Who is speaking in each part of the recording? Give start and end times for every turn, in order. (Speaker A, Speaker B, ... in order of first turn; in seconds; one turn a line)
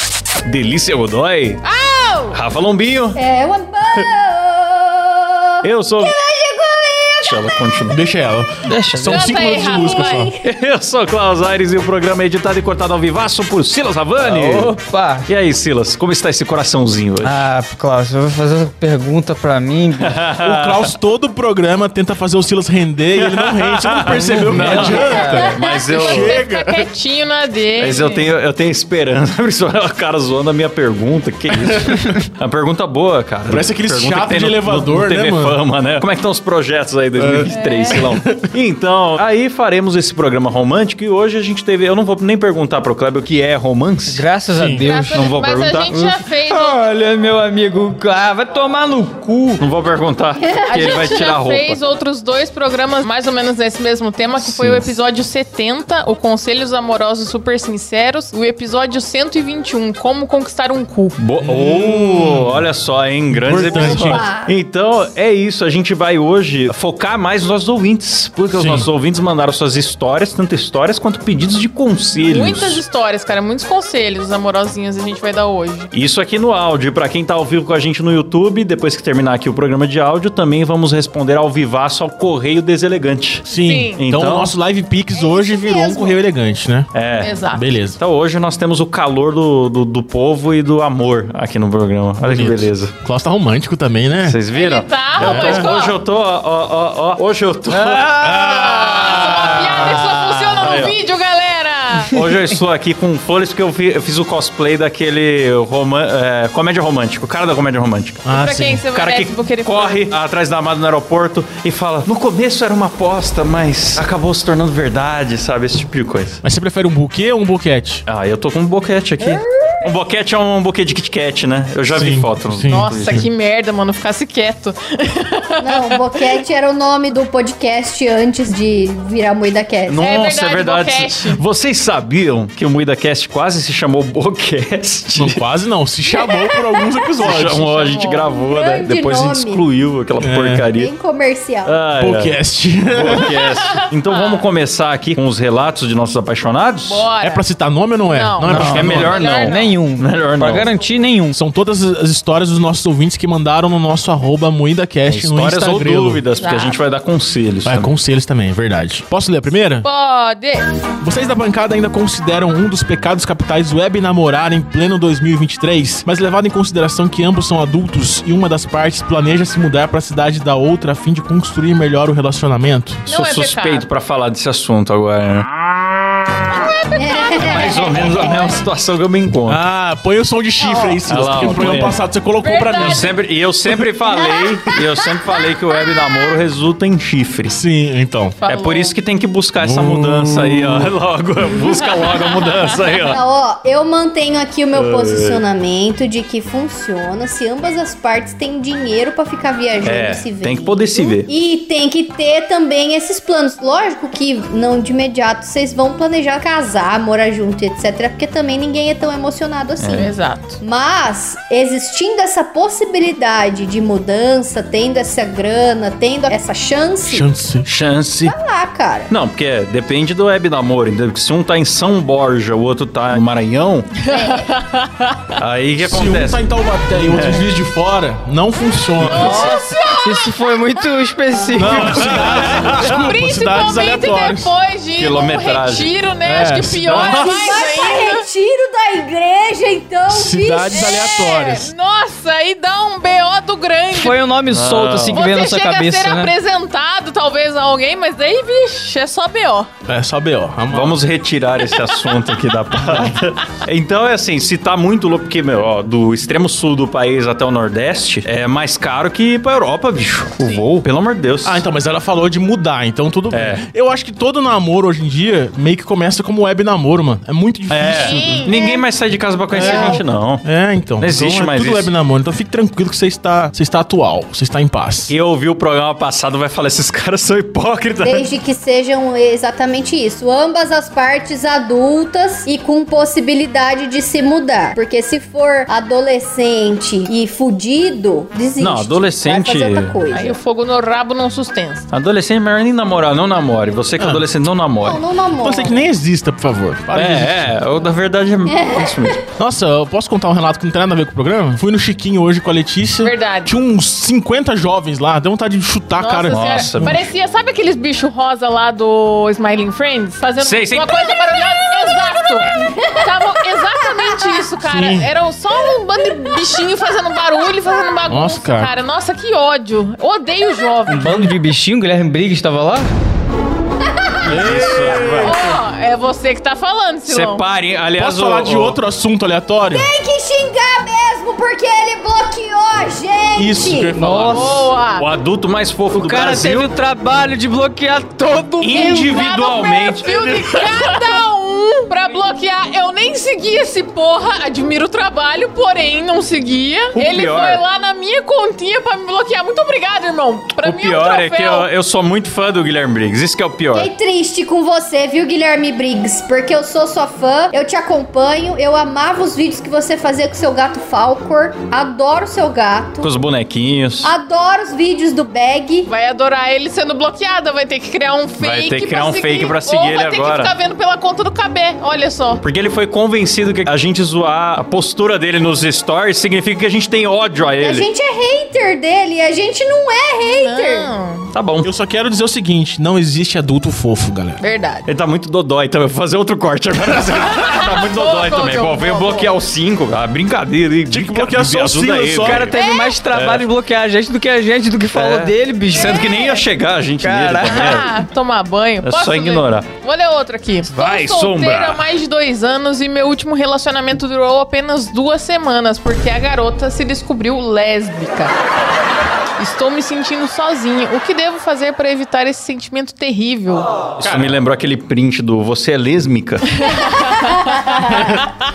Speaker A: 0.4-1.6
Speaker B: 1.6-2.4
Speaker A: 2.3-3.2
Speaker C: 3.1-7.7
Speaker A: 5.6-6.1
Speaker A: 7.2-8.0
Speaker D: 7.9-10.3
Speaker E: 8.7-9.2
Speaker B: 9.1-10.3
Speaker C: 9.3-10.5
Speaker A: 10.4-14.7
Speaker E: 14.2-15.3
Speaker A: 15.3-17.4
Speaker E: 17.2-20.2
Speaker A: 20.0-20.9
Speaker D: 20.4-26.8
Speaker A: 23.1-26.4
Speaker E: 24.3-25.5
Speaker B: 24.8-28.3
Speaker A: 27.8-44.2
Speaker D: 31.8-32.1
Speaker D: 33.5-35.6
Speaker D: 37.1-38.5
Speaker B: 37.5-38.0
Speaker E: 44.1-45.3
Speaker D: 44.5-44.8
Speaker B: 44.8-46.9
Speaker A: 45.1-46.2
Speaker E: 46.5-49.6
Speaker A: 49.6-51.8
Speaker C: 50.4-51.0
Speaker B: 50.7-61.1
Speaker A: 54.4-54.9
Speaker A: 61.2-72.8
Speaker D: 61.4-62.6
Speaker D: 63.3-64.2
Speaker C: 63.5-64.5
Speaker D: 68.5-68.9
Speaker B: 72.3-75.9
Speaker A: 75.9-83.4
Speaker D: 83.4-86.9
Speaker B: 83.5-84.0
Speaker A: 84.0-84.5
Speaker C: 85.1-86.2
Speaker A: 86.9-87.4
Speaker B: 87.2-87.7
Speaker D: 87.5-88.0
Speaker A: 88.0-92.9
Speaker D: 92.2-94.4
Speaker A: 94.2-101.0
Speaker B: 94.5-96.0
Speaker D: 95.2-95.7
Speaker D: 97.7-100.0
Speaker B: 98.3-102.2
Speaker A: 102.1-108.2
Speaker D: 108.2-108.8
Speaker B: 108.3-110.1
Speaker A: 108.9-116.4
Speaker D: 116.4-118.0
Speaker A: 118.1-123.2
Speaker C: 119.2-119.9
Speaker D: 121.9-123.3
Speaker B: 122.7-126.2
Speaker C: 125.6-130.0
Speaker A: 129.9-135.4
Speaker B: 130.0-131.4
Speaker D: 135.2-137.7
Speaker B: 136.2-136.5
Speaker A: 137.2-140.9
Speaker B: 137.3-138.3
Speaker C: 138.2-139.6
Speaker D: 140.2-140.7
Speaker C: 140.7-141.8
Speaker A: 141.6-142.4
Speaker D: 142.0-143.4
Speaker A: 142.9-147.0
Speaker B: 143.4-144.4
Speaker B: 146.8-147.4
Speaker D: 147.2-149.2
Speaker B: 148.1-149.8
Speaker E: 148.4-151.4
Speaker A: 148.5-150.7
Speaker D: 151.3-156.2
Speaker A: 155.1-157.9
Speaker B: 156.4-156.8
Speaker D: 157.6-159.8
Speaker B: 159.8-160.6
Speaker D: 161.0-173.0
Speaker B: 173.1-173.9
Speaker A: 173.1-176.7
Speaker B: 176.5-178.2
Speaker C: 176.9-178.6
Speaker A: 177.4-179.6
Speaker D: 179.5-183.1
Speaker C: 180.6-181.0
Speaker A: 181.1-182.0
Speaker B: 182.4-183.1
Speaker A: 182.8-187.6
Speaker B: 185.3-186.3
Speaker D: 187.5-188.4
Speaker B: 188.4-188.9
Speaker A: 188.5-193.2
Speaker D: 189.6-190.9
Speaker B: 191.9-192.8
Speaker C: 193.1-217.3
Speaker A: 194.7-195.4
Speaker A: 199.8-201.3
Speaker A: 209.8-210.1
Speaker B: 209.9-210.6
Speaker D: 217.0-217.9
Speaker A: 217.7-218.4
Speaker C: 218.2-219.1
Speaker A: 219.1-223.9
Speaker B: 224.0-225.2
Speaker C: 224.1-224.5
Speaker A: 225.4-226.4
Speaker D: 225.8-229.5
Speaker A: 226.9-227.4
Speaker A: 229.0-229.6
Speaker B: 229.1-230.8
Speaker E: 229.2-232.3
Speaker D: 231.5-234.5
Speaker A: 231.7-233.1
Speaker B: 232.4-238.2
Speaker A: 235.0-235.9
Speaker D: 236.2-237.1
Speaker A: 236.9-237.6
Speaker C: 237.0-241.1
Speaker D: 240.1-241.7
Speaker B: 240.7-244.2
Speaker E: 243.9-246.3
Speaker A: 244.5-245.2
Speaker B: 245.1-249.7
Speaker D: 249.9-251.0
Speaker A: 250.7-261.6
Speaker B: 251.6-252.2
Speaker D: 261.4-268.5
Speaker A: 263.3-263.6
Speaker A: 267.7-270.4
Speaker B: 267.9-268.6
Speaker C: 268.5-268.8
Speaker D: 269.5-275.1
Speaker C: 269.5-270.0
Speaker A: 271.0-271.9
Speaker A: 275.1-278.3
Speaker C: 278.0-290.4
Speaker A: 288.6-289.9
Speaker B: 290.1-291.9
Speaker A: 291.9-295.0
Speaker D: 294.0-294.2
Speaker C: 294.8-295.8
Speaker D: 295.4-297.6
Speaker A: 296.9-299.2
Speaker C: 298.4-299.2
Speaker D: 299.4-307.1
Speaker B: 303.0-303.5
Speaker B: 306.0-321.3
Speaker A: 306.3-307.0
Speaker A: 310.4-310.9
Speaker C: 312.4-313.2
Speaker C: 313.7-314.3
Speaker D: 314.7-315.1
Speaker D: 318.1-318.7
Speaker E: 320.9-322.9
Speaker C: 323.9-324.5
Speaker A: 324.2-325.3
Speaker D: 324.2-325.4
Speaker B: 325.2-327.4
Speaker A: 327.1-328.8
Speaker D: 328.0-329.9
Speaker C: 329.7-334.0
Speaker D: 333.4-334.6
Speaker E: 333.9-334.7
Speaker B: 334.2-335.1
Speaker A: 334.9-336.7
Speaker E: 335.9-339.1
Speaker A: 338.6-340.1
Speaker B: 338.8-351.7
Speaker C: 338.8-339.4
Speaker A: 346.9-347.6
Speaker A: 350.6-353.9
Speaker C: 353.7-363.1
Speaker A: 363.0-364.1
Speaker C: 364.0-365.9
Speaker B: 365.9-372.4
Speaker A: 368.4-370.5
Speaker A: 372.4-377.9
Speaker C: 377.6-380.9
Speaker B: 380.2-381.3
Speaker A: 381.3-381.7
Speaker D: 381.6-384.4
Speaker B: 384.4-384.9
Speaker A: 384.8-392.6
Speaker B: 387.2-389.3
Speaker D: 390.9-392.5
Speaker E: 392.2-396.1
Speaker B: 392.5-393.0
Speaker A: 393.1-393.5
Speaker A: 394.9-397.9
Speaker B: 395.7-396.4
Speaker E: 397.0-397.7
Speaker B: 397.5-408.3
Speaker A: 398.8-399.7
Speaker A: 400.7-401.8
Speaker B: 409.4-413.7
Speaker A: 414.0-416.7
Speaker D: 414.0-414.3
Speaker B: 416.6-418.2
Speaker C: 417.2-417.9